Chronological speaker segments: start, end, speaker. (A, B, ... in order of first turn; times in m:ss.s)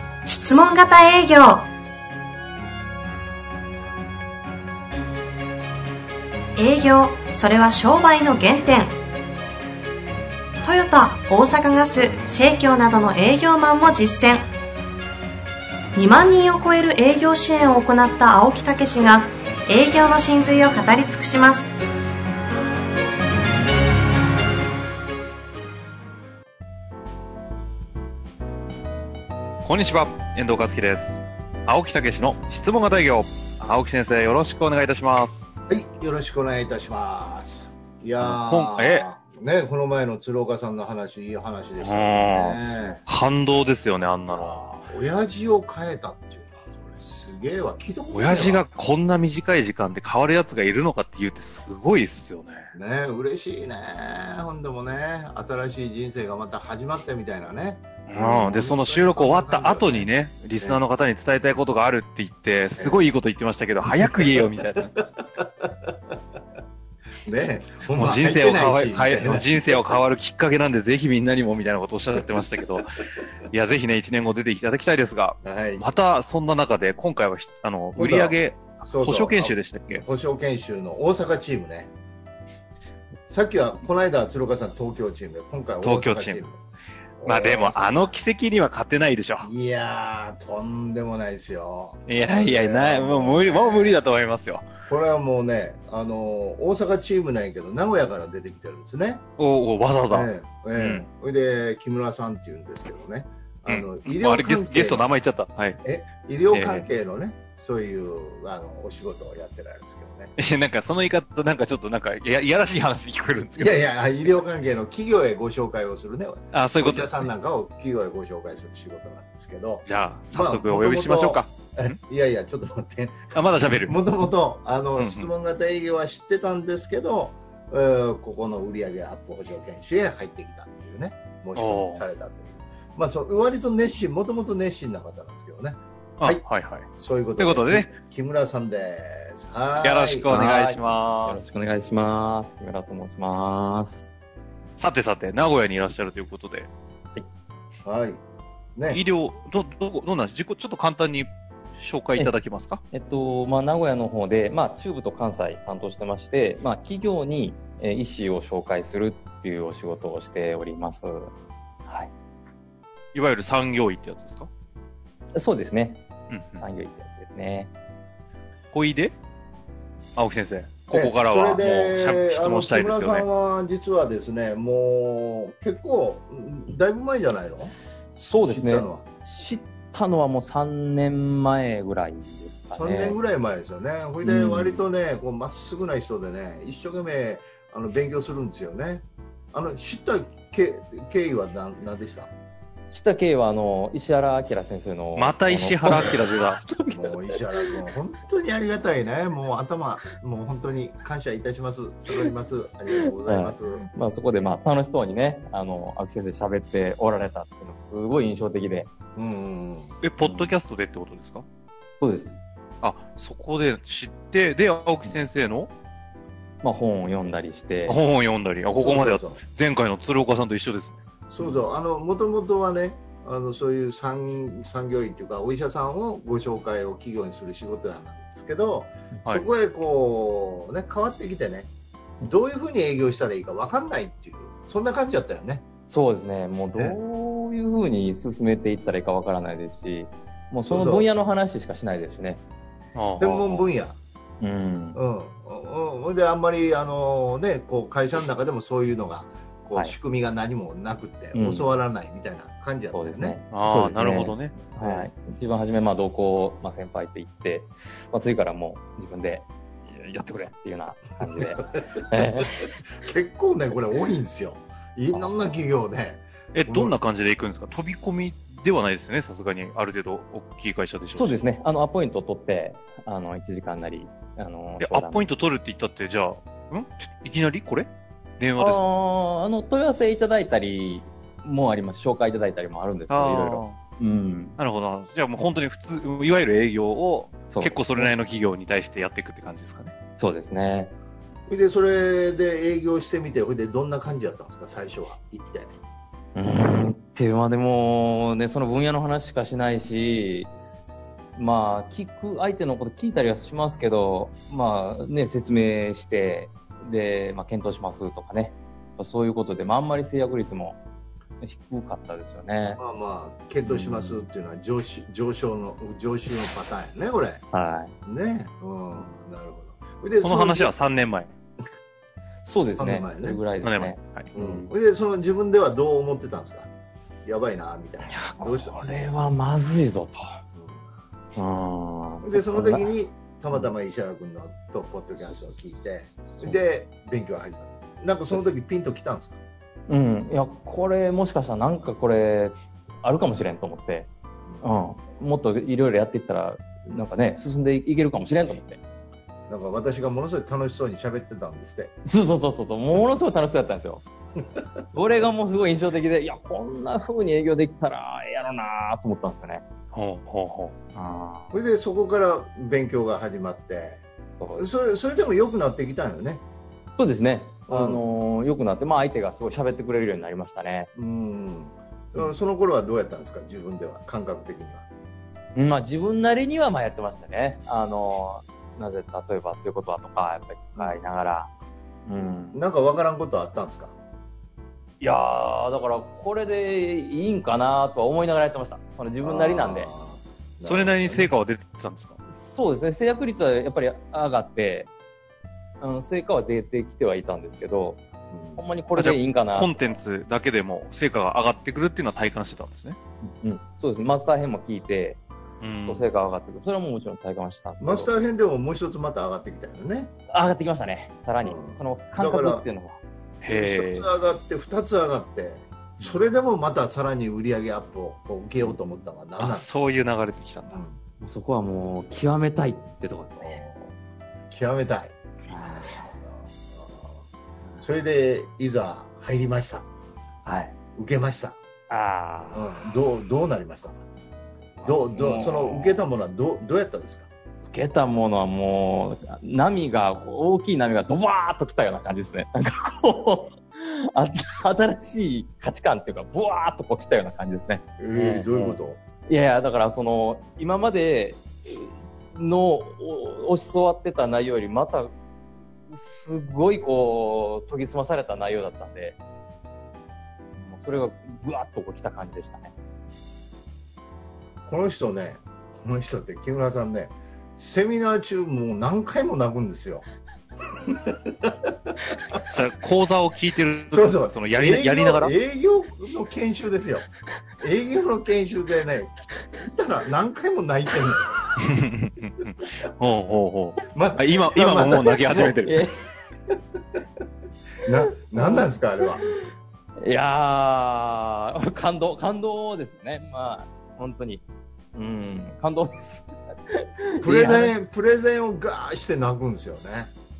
0:00.2-0:01.7 A
0:06.6-0:08.9 A
0:10.6-0:14.5 A
0:16.0-0:21.7 A
0:29.6-0:35.4 B
0:35.7-0:43.0 C
0:38.2-0:39.0 B
0:41.8-0:44.8 B
0:44.3-0:48.6 C
0:48.1-0:52.7 B
0:52.7-1:00.1 C
0:58.1-1:04.9 B
1:04.0-1:04.8 C
1:05.4-1:06.1 C
1:07.2-1:10.0 C
1:07.9-1:12.9 B
1:13.5-1:20.0 B
1:15.4-1:15.9 C
1:18.0-1:21.9 C
1:23.3-1:26.6 C
1:25.8-1:26.4 B
1:27.2-1:28.2 C
1:27.2-1:29.5 B
1:29.4-1:34.0 C
1:32.1-1:34.7 B
1:34.9-1:39.2 C
1:39.4-1:41.0 B
1:40.1-1:45.0 C
1:43.7-1:45.8 B
1:45.8-1:50.3 C
1:46.5-1:46.9 B
1:50.4-1:53.8 B
1:53.6-2:16.4 C
1:56.5-1:57.2 B
1:59.8-2:02.0 B
2:03.3-2:04.0 B
2:05.0-2:05.3 B
2:11.6-2:12.0 B
2:16.2-2:17.9 B
2:17.0-2:20.3 C
2:19.8-2:21.5 B
2:20.3-2:24.0 D
2:24.8-2:26.7 B
2:27.8-2:28.2 C
2:28.8-2:29.0 C
2:28.9-2:32.8 B
2:32.9-2:41.3 D
2:41.9-2:42.1 D
2:43.1-2:44.5 B
2:45.3-2:46.0 D
2:46.3-2:46.6 B
2:46.6-2:47.7 D
2:48.7-2:49.2 B
2:50.2-2:53.2 B
2:50.9-2:57.8 C
2:58.2-3:03.2 D
2:58.4-2:59.0 C
3:02.7-3:12.3 C
3:04.2-3:04.8 D
3:12.9-3:17.8 D
3:15.2-3:16.6 B
3:16.9-3:23.9 C
3:23.2-3:28.9 D
3:29.2-3:30.0 C
3:30.0-3:31.5 B
3:30.2-3:30.6 D
3:32.0-3:32.4 D
3:32.8-3:35.7 B
3:36.6-3:38.0 D
3:37.9-3:41.0 B
3:38.8-3:39.4 C
3:41.3-3:51.7 C
3:52.2-3:55.6 C
3:55.9-4:02.4 D
4:00.7-4:01.1 C
4:03.0-4:03.4 B
4:03.2-4:04.0 C
4:03.2-4:03.6 D
4:04.4-4:05.0 D
4:04.9-4:13.4 C
4:11.3-4:11.7 D
4:12.9-4:22.7 D
4:13.5-4:14.5 B
4:14.8-4:15.1 C
4:21.2-4:26.9 C
4:25.1-4:25.6 D
4:26.5-4:31.4 B
4:31.2-4:35.2 D
4:34.8-4:38.8 B
4:38.6-4:44.6 D
4:43.1-4:43.8 B
4:44.6-4:49.9 B
4:47.5-4:48.1 D
4:50.2-4:50.9 D
4:51.5-4:55.7 C
4:56.4-5:00.7 D
5:01.3-5:10.8 D
5:11.4-5:12.8 D
5:12.8-5:17.4 C
5:13.6-5:14.3 D
5:17.5-5:18.0 D
5:18.0-5:20.7 C
5:20.2-5:21.3 B
5:22.4-5:24.7 D
5:22.8-5:23.4 C
5:23.6-5:24.3 B
5:24.3-5:26.7 C
5:27.2-5:29.0 C
5:28.0-5:30.4 D
5:30.5-5:30.9 C
5:31.4-5:32.9 D
5:32.2-5:39.4 C
5:35.2-5:35.5 D
5:36.3-5:36.6 D
5:39.9-5:44.1 D
5:44.6-5:48.8 D
5:49.5-5:51.9 C
5:52.0-5:54.0 D
5:54.9-5:59.6 D
5:59.9-6:00.8 B
6:00.9-6:01.5 D
6:01.5-6:04.0 C
6:04.4-6:04.6 D
6:04.6-6:06.4 C
6:07.0-6:10.9 D
6:07.7-6:08.0 C
6:10.9-6:14.8 C
6:15.5-6:21.5 D
6:22.1-6:22.6 D
6:22.2-6:23.9 C
6:25.0-6:29.9 D
6:29.2-6:31.3 C
6:30.6-6:32.2 B
6:32.3-6:34.9 D
6:35.8-6:38.0 D
6:38.3-6:38.6 C
6:38.6-6:39.7 D
6:39.0-6:43.0 B
6:43.2-6:45.2 D
6:45.6-6:46.1 B
6:45.9-6:48.1 D
6:47.8-6:50.1 C
6:50.3-6:53.0 D
6:51.4-6:52.6 C
6:53.4-6:54.1 B
6:53.5-6:59.7 C
6:56.0-6:56.2 D
6:58.6-6:59.0 D
6:59.4-7:00.8 B
7:00.7-7:01.0 C
7:01.2-7:03.6 D
7:03.4-7:03.9 C
7:04.5-7:05.2 C
7:05.5-7:06.1 D
7:05.8-7:07.2 C
7:07.8-7:09.8 C
7:10.4-7:10.7 D
7:10.9-7:11.6 C
7:11.9-7:12.7 D
7:12.5-7:14.0 C
7:14.8-7:16.0 D
7:14.8-7:17.3 C
7:17.7-7:28.5 D
7:28.0-7:29.0 C
7:29.3-7:35.1 D
7:35.9-7:39.2 D
7:40.6-7:42.7 D
7:44.7-7:50.0 C
7:50.8-7:52.4 C
7:52.5-7:55.3 B
7:53.9-7:57.1 C
7:57.6-8:01.4 C
8:01.6-8:05.8 B
8:03.8-8:05.6 C
8:05.6-8:06.0 D
8:07.8-8:09.2 C
8:08.4-8:08.7 D
8:10.0-8:14.4 D
8:14.9-8:17.8 D
8:17.2-8:20.1 C